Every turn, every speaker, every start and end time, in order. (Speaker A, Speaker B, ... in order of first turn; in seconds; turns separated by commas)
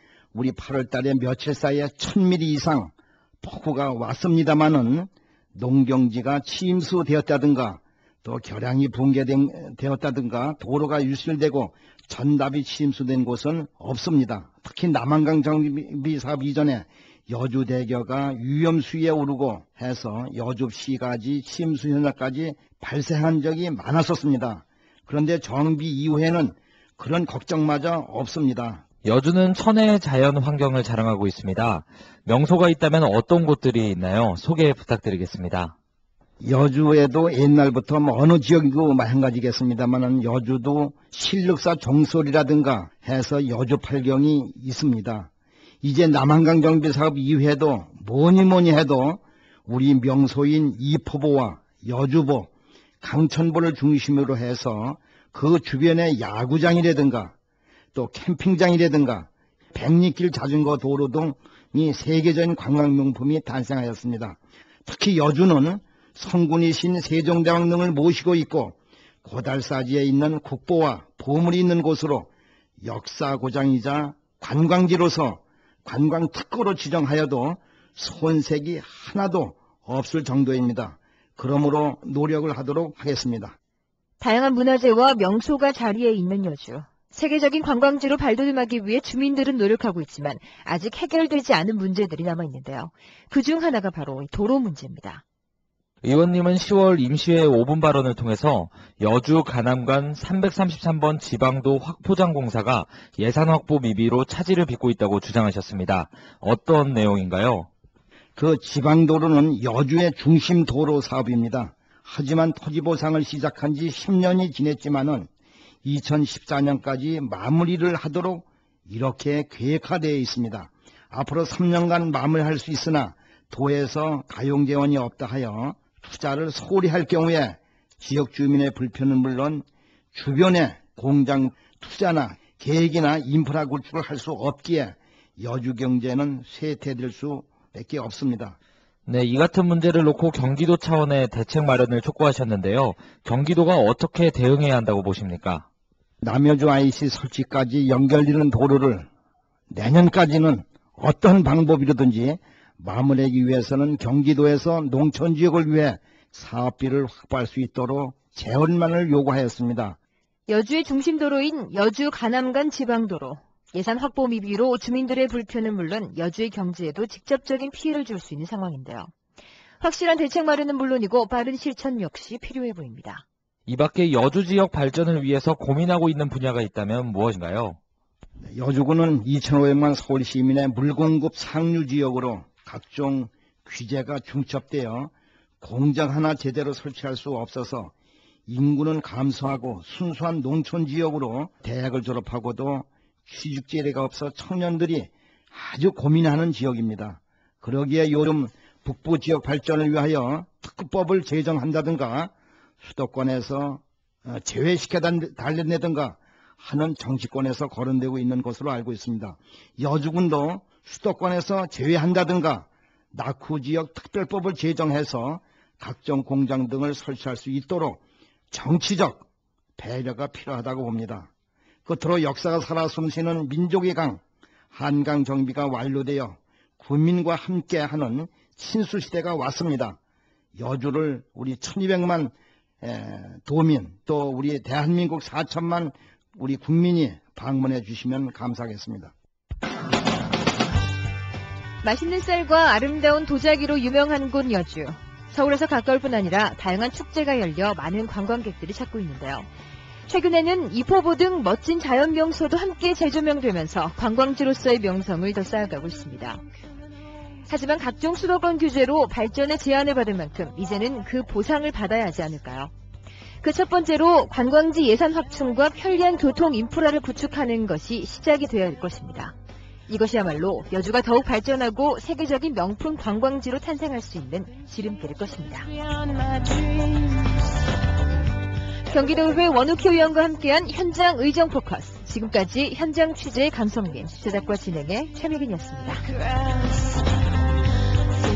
Speaker A: 0.3-28.8, Speaker B: 29.0-35.7, Speaker A: 36.4-45.3, Speaker A: 45.8-52.5, Speaker A: 53.0-57.3, Speaker A: 57.9-72.3, Speaker A: 72.8-83.5, Speaker C: 84.2-95.2, Speaker B: 96.0-107.7, Speaker A: 108.3-115.3, Speaker A: 115.8-138.6, Speaker B: 139.1-145.7, Speaker A: 146.2-149.1, Speaker A: 149.7-160.0, Speaker C: 160.5-169.1, Speaker C: 169.8-173.2, Speaker B: 173.7-177.8, Speaker A: 178.5-187.9, Speaker A: 188.5-219.2, Speaker A: 219.8-221.3, Speaker A: 221.8-224.2, Speaker A: 224.7-230.0, Speaker A: 230.5-239.1, Speaker C: 241.8-249.5, Speaker C: 250.1-256.4, Speaker C: 257.5-262.7, Speaker C: 263.4-269.3, Speaker C: 269.9-275.8, Speaker C: 276.4-277.2, Speaker C: 278.9-286.1